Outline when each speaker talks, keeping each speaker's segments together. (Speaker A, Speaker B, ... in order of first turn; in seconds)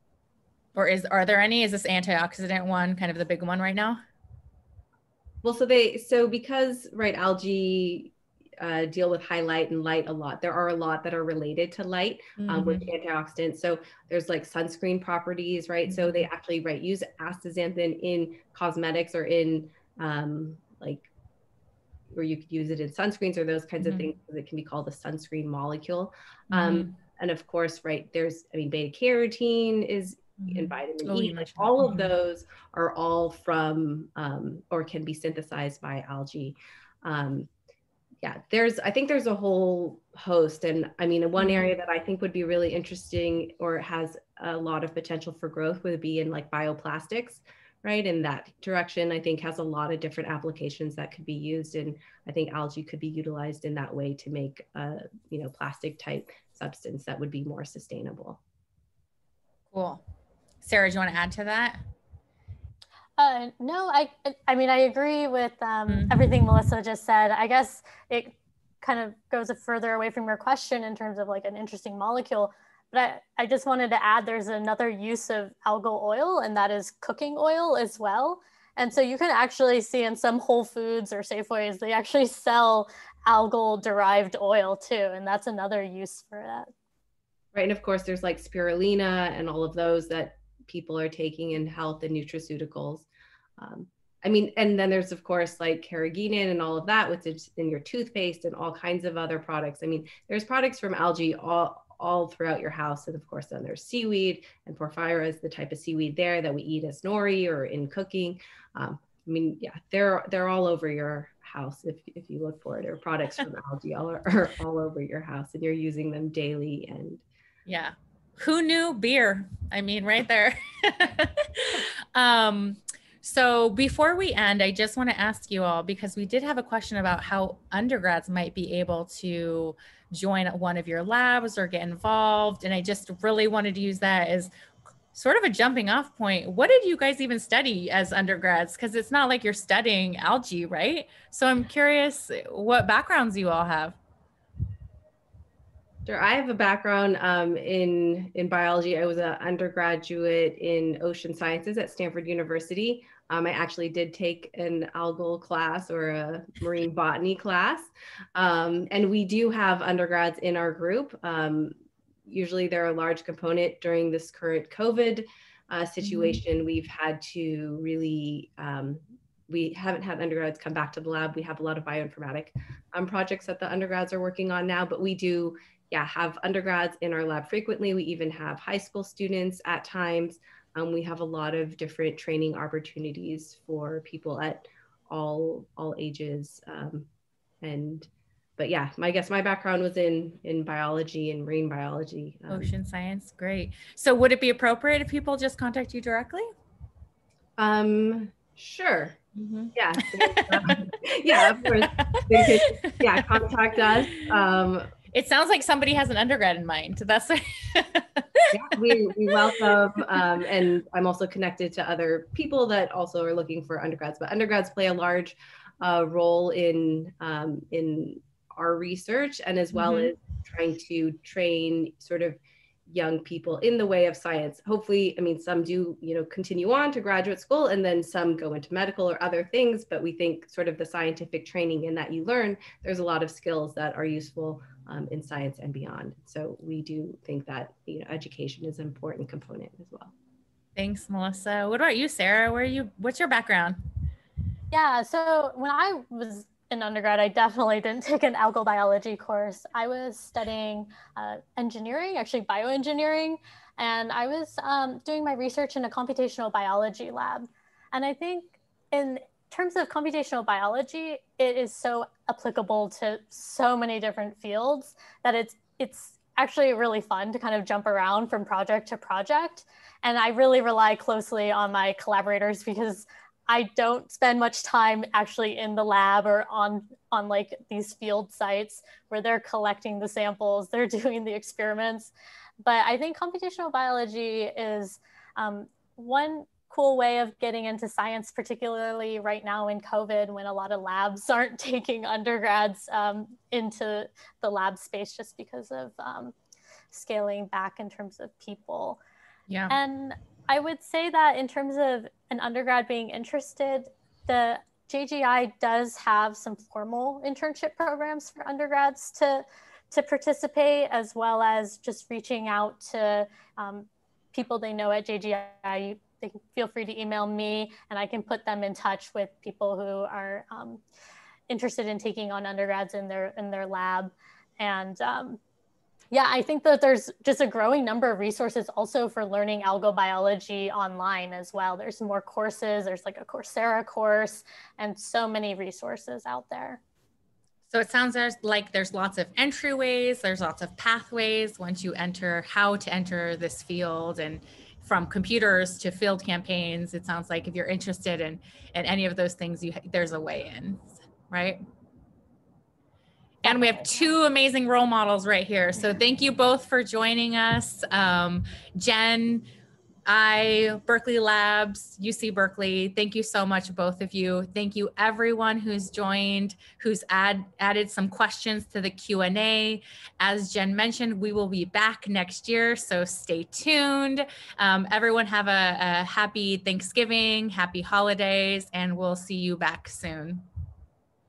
Speaker A: 0.7-4.0, 12.4-12.9, 15.9-16.2, 23.8-24.1, 26.5-26.9, 30.4-32.1, 41.4-41.7, 59.7-60.0, 60.6-61.8, 65.9-66.1, 117.7-134.5, 135.1-144.0, 166.0-166.4, 192.5-196.5, 199.3-200.8, 201.3-203.4, 205.1-210.2, 219.7-220.1, 240.8-243.8, 299.5-299.8, 337.7-351.6, 353.4-359.5, 360.1-380.4
Speaker B: 5.4-21.1, 22.1-37.5, 38.2-58.4, 87.5-93.1, 93.6-117.2, 146.1-161.7, 162.2-187.1, 187.6-192.7, 197.6-199.2, 199.7-204.9, 208.5-240.1
Speaker C: 63.2-86.7, 244.7-296.3, 296.9-299.0, 299.7-320.8, 321.5-325.4, 326.1-336.8